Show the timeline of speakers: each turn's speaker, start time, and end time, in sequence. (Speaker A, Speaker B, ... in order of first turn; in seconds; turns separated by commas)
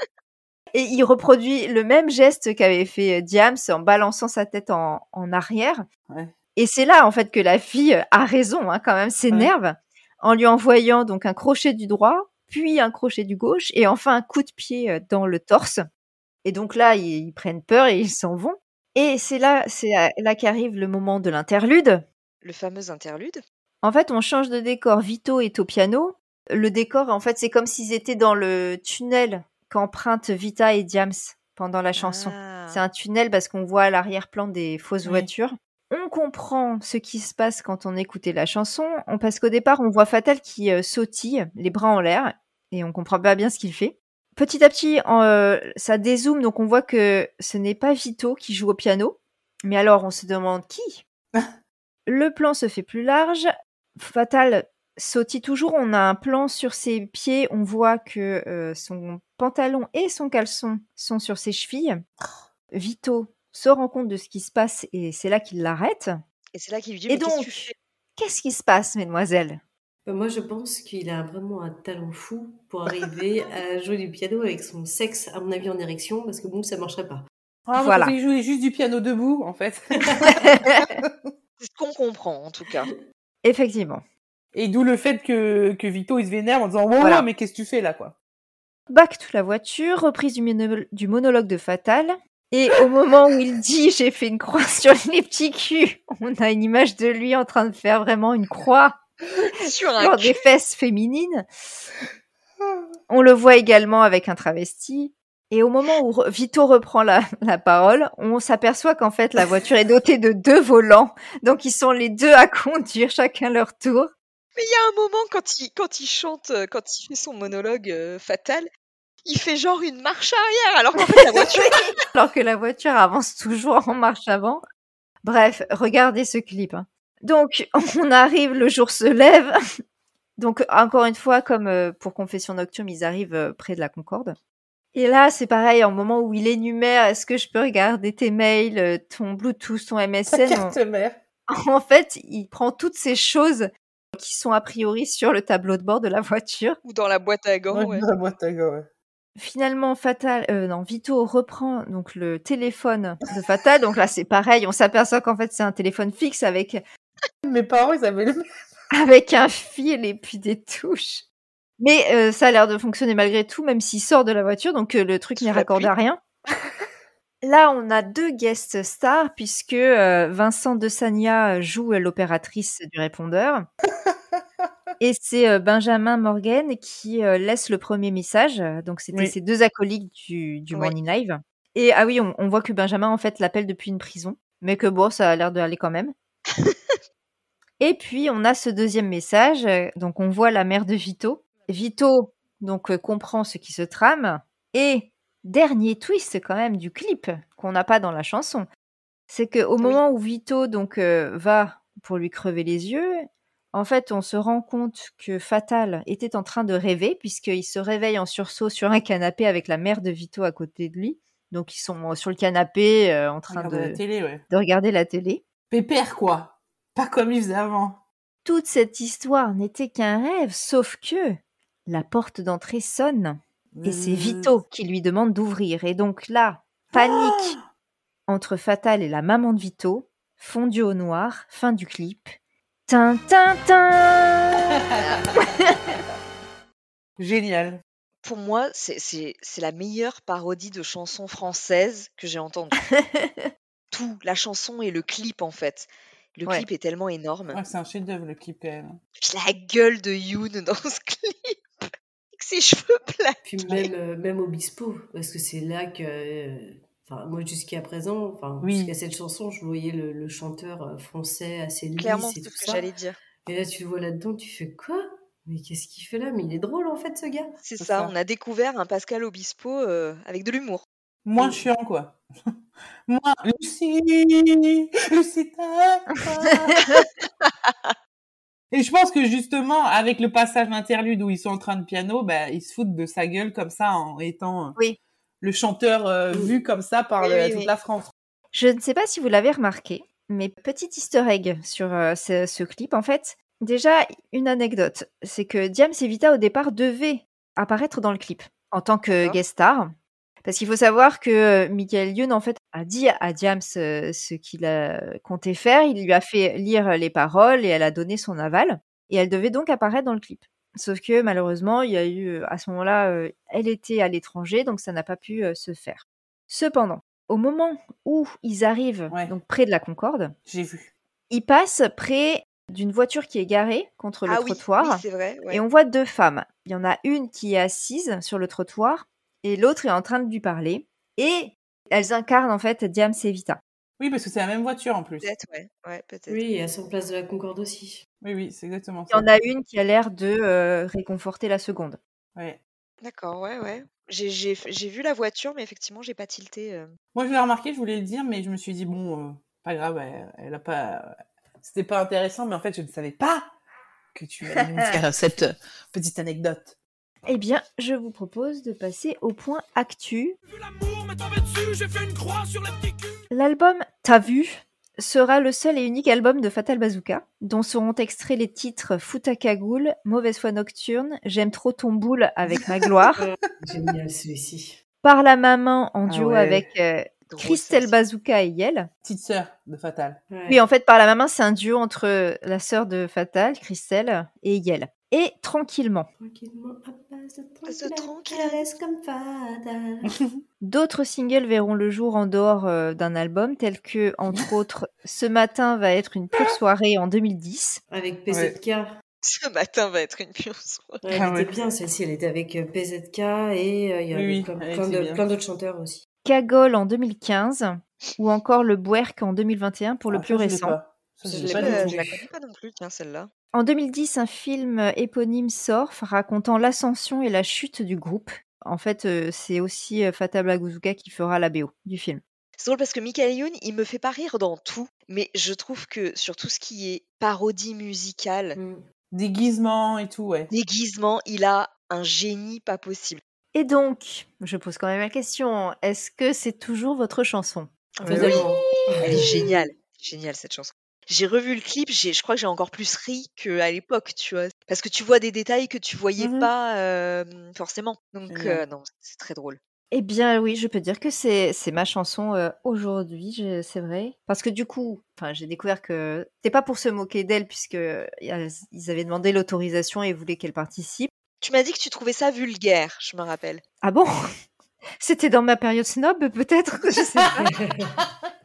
Speaker A: 0.7-5.8, Speaker A: 6.5-15.8, Speaker A: 16.4-22.0, Speaker B: 22.4-23.4, Speaker A: 23.8-51.0, Speaker B: 31.9-32.8, Speaker C: 35.0-35.3, Speaker A: 52.0-62.0, Speaker A: 62.7-66.2, Speaker B: 66.5-67.7, Speaker A: 67.1-69.6, Speaker D: 70.0-77.2, Speaker C: 77.7-81.3, Speaker A: 77.8-78.1, Speaker A: 80.3-80.9, Speaker B: 81.6-82.9, Speaker A: 83.4-84.0, Speaker C: 84.5-88.1, Speaker A: 87.0-87.2, Speaker A: 88.9-99.0, Speaker B: 99.6-100.4, Speaker A: 100.0-101.5, Speaker A: 103.1-114.1, Speaker B: 114.5-118.7, Speaker B: 119.2-121.9, Speaker A: 121.3-124.6, Speaker A: 125.2-129.6, Speaker A: 130.4-134.3, Speaker A: 134.9-140.8, Speaker C: 140.3-141.2, Speaker A: 141.5-146.8, Speaker B: 146.8-148.0, Speaker C: 147.7-148.8, Speaker A: 149.3-156.8, Speaker C: 157.4-158.4, Speaker A: 158.9-161.2, Speaker A: 161.8-166.2, Speaker B: 165.4-165.9, Speaker A: 167.4-173.7, Speaker A: 175.0-186.1, Speaker A: 187.8-198.7, Speaker A: 199.3-215.4, Speaker C: 213.5-214.4, Speaker C: 215.7-218.0, Speaker A: 218.4-227.6, Speaker C: 223.7-224.5, Speaker C: 226.9-227.6, Speaker A: 228.3-232.3, Speaker A: 232.9-234.7, Speaker C: 234.9-235.4, Speaker B: 235.0-235.3, Speaker A: 235.4-235.7, Speaker C: 237.2-237.8, Speaker B: 238.2-242.8, Speaker A: 242.9-243.5, Speaker B: 243.9-247.6, Speaker C: 247.5-249.0, Speaker B: 249.2-253.9, Speaker D: 253.4-262.9, Speaker C: 258.6-258.9, Speaker B: 262.0-263.2, Speaker D: 263.4-267.6, Speaker B: 267.6-270.8, Speaker C: 267.8-268.1, Speaker C: 271.2-272.2, Speaker D: 271.4-271.6, Speaker C: 273.1-276.8, Speaker A: 276.7-277.0, Speaker B: 277.4-277.9, Speaker C: 278.7-284.8, Speaker C: 285.4-288.1, Speaker B: 287.2-287.7, Speaker A: 288.5-299.9, Speaker B: 299.1-299.4, Speaker A: 300.4-320.3, Speaker C: 320.4-320.9, Speaker A: 321.3-333.6, Speaker B: 324.2-325.6, Speaker C: 334.0-335.3, Speaker B: 335.2-336.4, Speaker D: 336.3-338.0, Speaker C: 338.2-339.3, Speaker A: 339.1-342.0, Speaker B: 343.0-346.9, Speaker C: 347.1-353.5, Speaker C: 354.1-356.8, Speaker A: 357.2-360.4, Speaker E: 360.5-363.2, Speaker A: 363.3-373.2, Speaker D: 373.2-374.8, Speaker A: 375.0-378.9, Speaker C: 376.1-376.6, Speaker B: 377.3-377.9, Speaker C: 379.0-380.2, Speaker D: 380.3-380.6, Speaker A: 380.5-386.1, Speaker D: 386.2-390.1, Speaker B: 387.7-388.6, Speaker C: 390.1-390.4, Speaker A: 390.6-397.8, Speaker D: 397.9-398.9, Speaker C: 398.3-398.5, Speaker B: 399.2-401.0, Speaker D: 401.0-406.0, Speaker C: 401.1-401.5, Speaker C: 404.1-405.2, Speaker A: 406.2-410.8, Speaker C: 410.1-412.1, Speaker D: 411.2-412.2, Speaker B: 411.4-413.3, Speaker A: 413.5-422.2, Speaker B: 422.6-428.6, Speaker D: 428.6-428.8, Speaker C: 429.1-430.5, Speaker B: 430.5-433.2, Speaker A: 433.5-437.7, Speaker B: 438.0-438.4, Speaker D: 438.0-439.4, Speaker C: 438.1-438.4, Speaker C: 439.0-439.3, Speaker B: 439.0-449.6, Speaker C: 446.2-446.5, Speaker C: 448.3-448.6, Speaker A: 449.9-461.1, Speaker B: 461.4-463.6, Speaker A: 463.8-464.1, Speaker A: 465.0-467.4, Speaker D: 467.4-468.0